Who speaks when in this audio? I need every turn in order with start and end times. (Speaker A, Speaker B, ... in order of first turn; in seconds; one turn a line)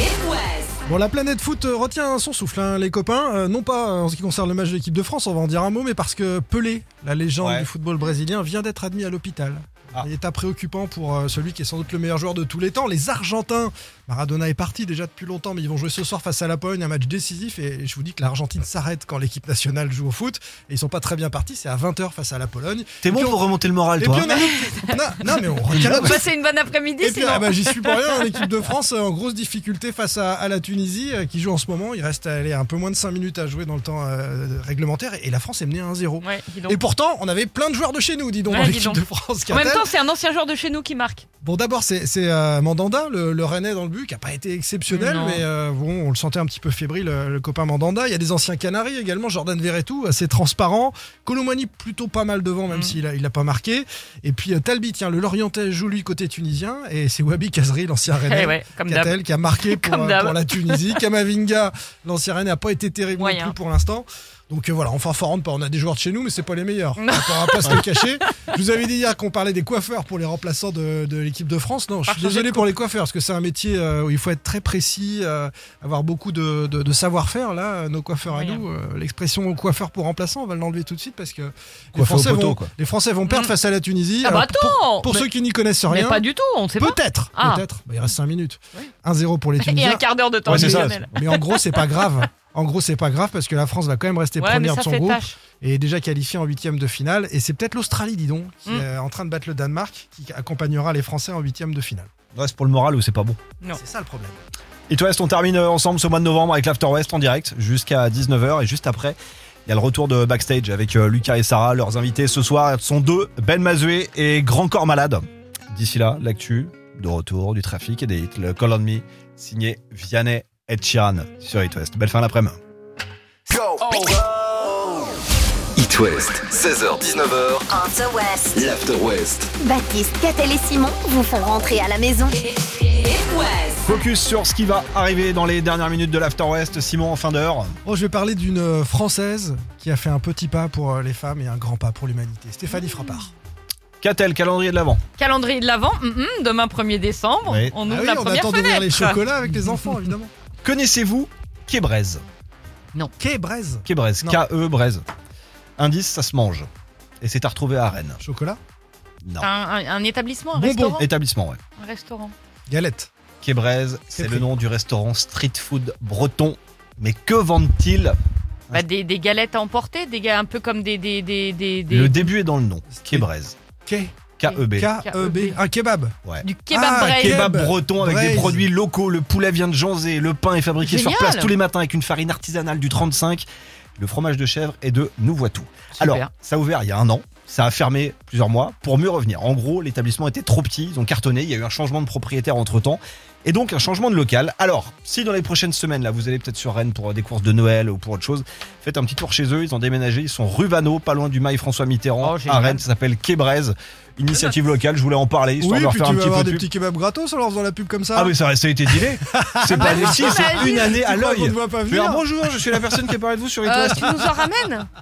Speaker A: 0.8-23.4
Speaker B: 7.4-7.7
Speaker B: 23.0-24.3
Speaker A: 23.9-26.3
Speaker C: 24.3-24.8
Speaker C: 25.3-28.3
Speaker B: 25.7-26.2
Speaker A: 27.0-39.9
Speaker C: 36.2-36.8
Speaker C: 38.5-41.3
Speaker A: 41.4-102.1
Speaker C: 44.9-45.4
Speaker C: 52.7-53.0
Speaker C: 58.1-61.0
Speaker C: 63.1-63.5
Speaker C: 67.0-68.1
Speaker C: 72.0-72.7
Speaker C: 78.3-78.6
Speaker B: 81.9-82.7
Speaker C: 84.2-85.3
Speaker C: 85.9-87.6
Speaker C: 89.6-92.0
Speaker B: 90.5-91.2
Speaker C: 94.4-95.3
Speaker B: 102.3-103.4
Speaker A: 103.7-104.4
Speaker B: 104.9-122.6
Speaker D: 125.8-127.6
Speaker E: 127.7-128.6
Speaker D: 128.5-129.5
Speaker E: 129.6-132.4
Speaker C: 133.0-133.8
Speaker B: 133.8-137.8
Speaker A: 137.8-143.3
Speaker C: 142.8-143.2
Speaker B: 144.0-145.0
Speaker C: 145.2-150.0
Speaker B: 147.5-147.7
Speaker A: 147.8-150.3
Speaker B: 150.6-152.2
Speaker A: 153.2-154.4
Speaker B: 153.8-155.0
Speaker B: 155.8-156.7
Speaker B: 157.2-158.2
Speaker A: 158.2-158.6
Speaker C: 159.4-161.1
Speaker A: 160.5-161.0
Speaker B: 161.0-161.6
Speaker C: 161.8-162.3
Speaker A: 162.7-163.1
Speaker B: 163.4-168.2
Speaker A: 164.2-164.5
Speaker C: 168.7-172.3
Speaker B: 171.9-173.6
Speaker A: 172.9-173.3
Speaker A: 173.8-174.2
Speaker B: 174.4-174.9
Speaker C: 174.4-175.6
Speaker A: 174.8-176.1
Speaker C: 176.4-177.6
Speaker A: 176.7-178.6
Speaker B: 177.2-183.4
Speaker C: 180.8-181.5
Speaker B: 184.0-206.7
Speaker C: 185.9-186.3
Speaker C: 202.2-202.8
Speaker C: 204.3-204.6
Speaker A: 205.6-208.3
Speaker B: 208.1-214.1
Speaker A: 208.9-213.1
Speaker C: 209.8-211.0
Speaker C: 213.6-214.9
Speaker A: 214.0-214.3